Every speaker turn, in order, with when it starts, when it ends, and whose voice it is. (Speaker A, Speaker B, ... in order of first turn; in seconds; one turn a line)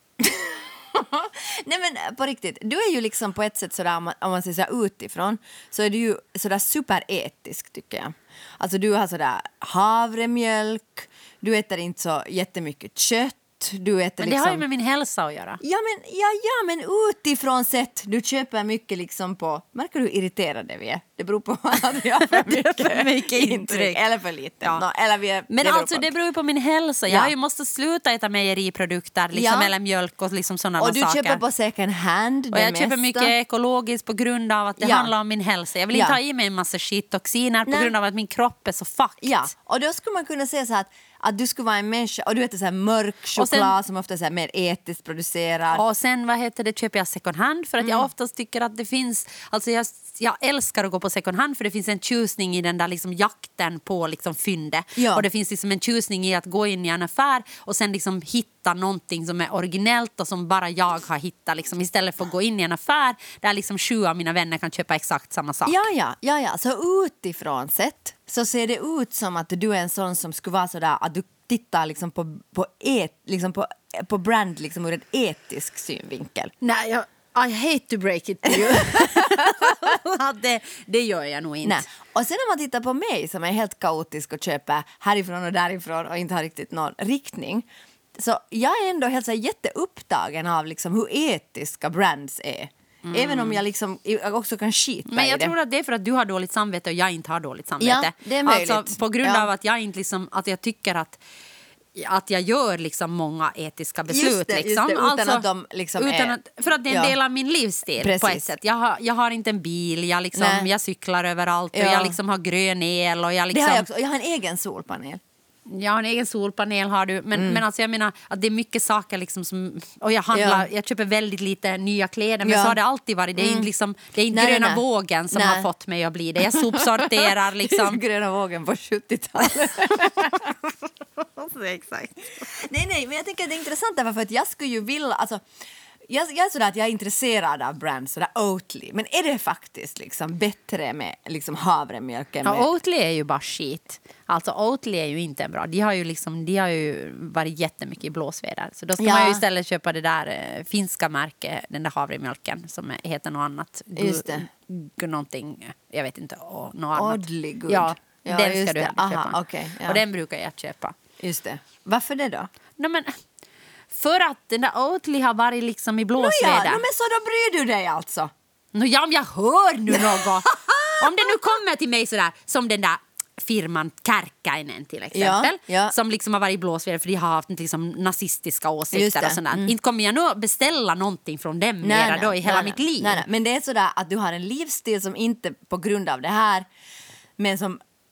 Speaker A: 0.2-14.7
Speaker B: 14.2-15.6
Speaker A: 15.6-26.1
Speaker B: 22.3-24.0
Speaker B: 25.5-31.4
Speaker A: 29.3-29.7
Speaker A: 30.8-33.3
Speaker B: 32.5-39.5
Speaker A: 34.8-35.1
Speaker A: 35.9-36.2
Speaker A: 37.7-37.9
Speaker A: 39.2-45.8
Speaker B: 43.4-43.7
Speaker B: 45.7-65.9
Speaker A: 47.8-48.1
Speaker A: 55.0-55.3
Speaker A: 65.7-76.5
Speaker B: 76.6-81.9
Speaker A: 78.5-80.0
Speaker A: 81.7-95.5
Speaker B: 93.0-93.6
Speaker B: 95.1-101.2
Speaker A: 97.8-99.5
Speaker B: 102.0-105.5
Speaker A: 104.1-106.4
Speaker B: 106.0-113.9
Speaker A: 106.9-107.2
Speaker A: 108.0-108.5
Speaker A: 110.3-110.7
Speaker A: 111.7-112.2
Speaker A: 113.5-115.2
Speaker B: 115.7-128.0
Speaker A: 117.3-117.6
Speaker A: 120.3-120.7
Speaker A: 122.4-122.8
Speaker A: 123.4-123.7
Speaker A: 124.3-125.7
Speaker A: 126.5-130.5
Speaker B: 131.2-132.5
Speaker A: 132.4-135.4
Speaker A: 136.1-142.7
Speaker B: 142.4-161.0
Speaker A: 149.0-149.4
Speaker A: 154.0-154.5
Speaker A: 156.9-160.0
Speaker A: 161.2-162.5
Speaker B: 162.8-163.2
Speaker B: 163.9-166.8
Speaker A: 166.2-168.3
Speaker B: 168.7-183.2
Speaker A: 169.9-171.4
Speaker A: 175.1-175.9
Speaker A: 178.9-179.7
Speaker A: 181.8-186.7
Speaker A: 187.4-187.8